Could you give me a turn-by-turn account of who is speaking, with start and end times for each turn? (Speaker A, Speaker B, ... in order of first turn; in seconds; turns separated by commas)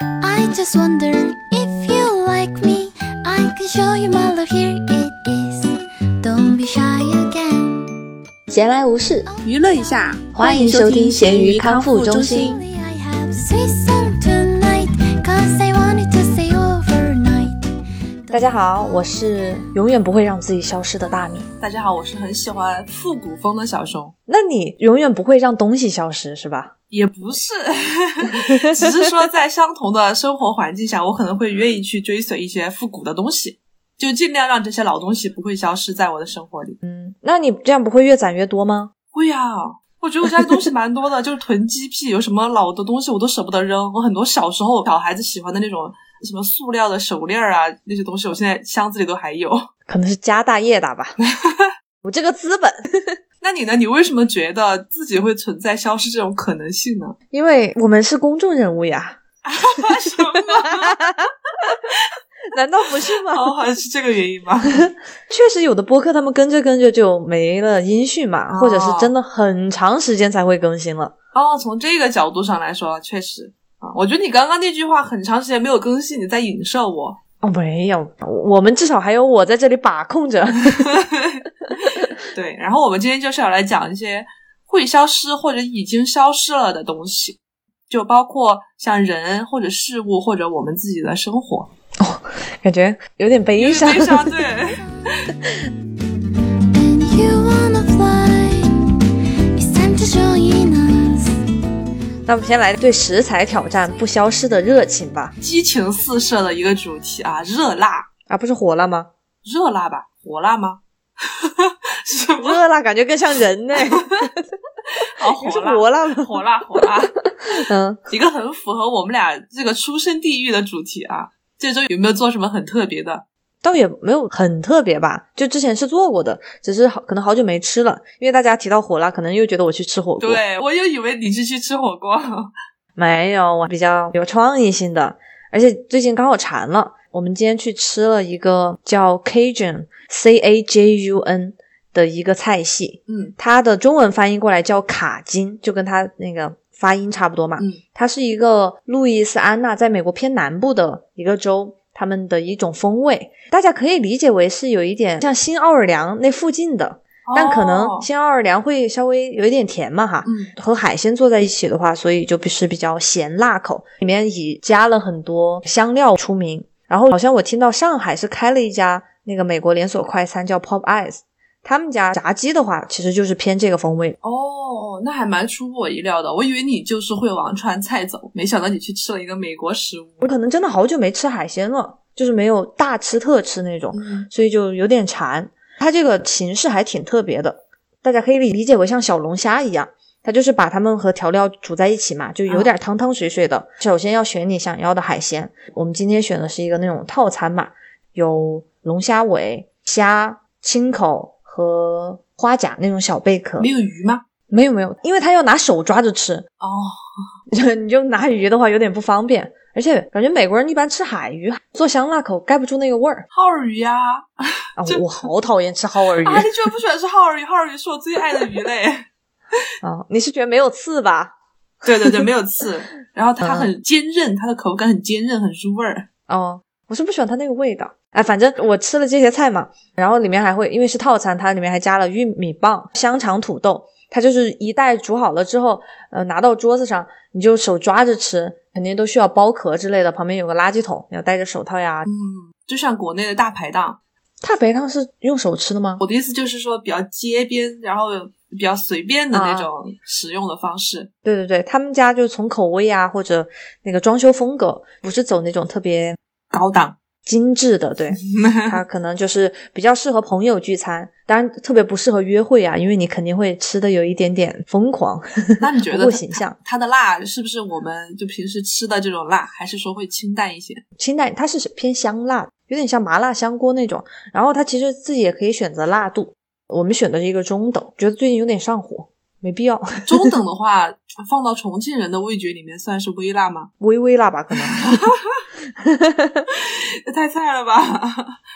Speaker A: 0.2-7.9, Speaker B: 8.5-9.3, Speaker A: 9.3-17.7, Speaker C: 9.4-12.5, Speaker B: 10.3-12.6, Speaker A: 18.2-19.5, Speaker B: 18.3-21.5, Speaker C: 21.6-24.1, Speaker B: 24.3-26.7, Speaker C: 26.9-36.8, Speaker B: 28.3-28.9, Speaker B: 36.8-38.9, Speaker C: 39.1-49.7, Speaker B: 49.9-51.1, Speaker C: 51.2-51.7, Speaker B: 52.0-53.1, Speaker C: 53.4-57.1, Speaker B: 57.3-59.2, Speaker C: 59.4-61.0, Speaker B: 60.6-61.3, Speaker C: 61.8-62.1, Speaker B: 62.5-63.5, Speaker C: 63.1-64.9, Speaker B: 65.3-71.1, Speaker C: 68.5-69.1, Speaker C: 71.3-77.2, Speaker B: 77.4-81.0, Speaker C: 80.8-87.4, Speaker C: 87.9-91.7, Speaker B: 92.0-94.3, Speaker C: 93.6-95.3, Speaker A: 96.7-99.0, Speaker A: 99.5-101.4, Speaker B: 102.2-105.3, Speaker C: 105.4-108.1, Speaker B: 108.3-109.1, Speaker C: 109.4-112.6, Speaker B: 112.4-114.3, Speaker C: 113.9-114.2, Speaker C: 114.9-117.2, Speaker B: 115.4-116.9, Speaker B: 117.4-118.0, Speaker C: 118.1-123.2, Speaker B: 123.6-130.4, Speaker C: 130.2-132.5, Speaker B: 133.0-174.2, Speaker C: 143.1-143.3, Speaker C: 157.2-158.1, Speaker C: 160.2-160.5, Speaker C: 174.2-180.2, Speaker B: 180.2-203.7, Speaker C: 183.9-184.3, Speaker C: 203.6-204.2, Speaker B: 204.5-206.4, Speaker C: 206.6-207.0, Speaker B: 207.5-213.2, Speaker C: 213.3-215.2, Speaker B: 214.8-216.5, Speaker C: 216.2-219.0, Speaker B: 219.8-221.3, Speaker C: 221.8-226.1, Speaker B: 221.9-222.2, Speaker B: 223.4-223.7, Speaker B: 226.3-242.1, Speaker C: 242.1-244.0, Speaker B: 244.4-246.0, Speaker C: 246.0-251.1, Speaker B: 249.3-249.7, Speaker B: 251.2-256.2, Speaker C: 256.5-256.9, Speaker B: 257.2-266.6, Speaker C: 258.3-258.7, Speaker C: 265.6-270.8, Speaker B: 271.0-280.1, Speaker C: 280.1-283.7, Speaker B: 283.8-285.0, Speaker C: 284.7-285.4, Speaker B: 285.8-286.4, Speaker C: 286.5-288.4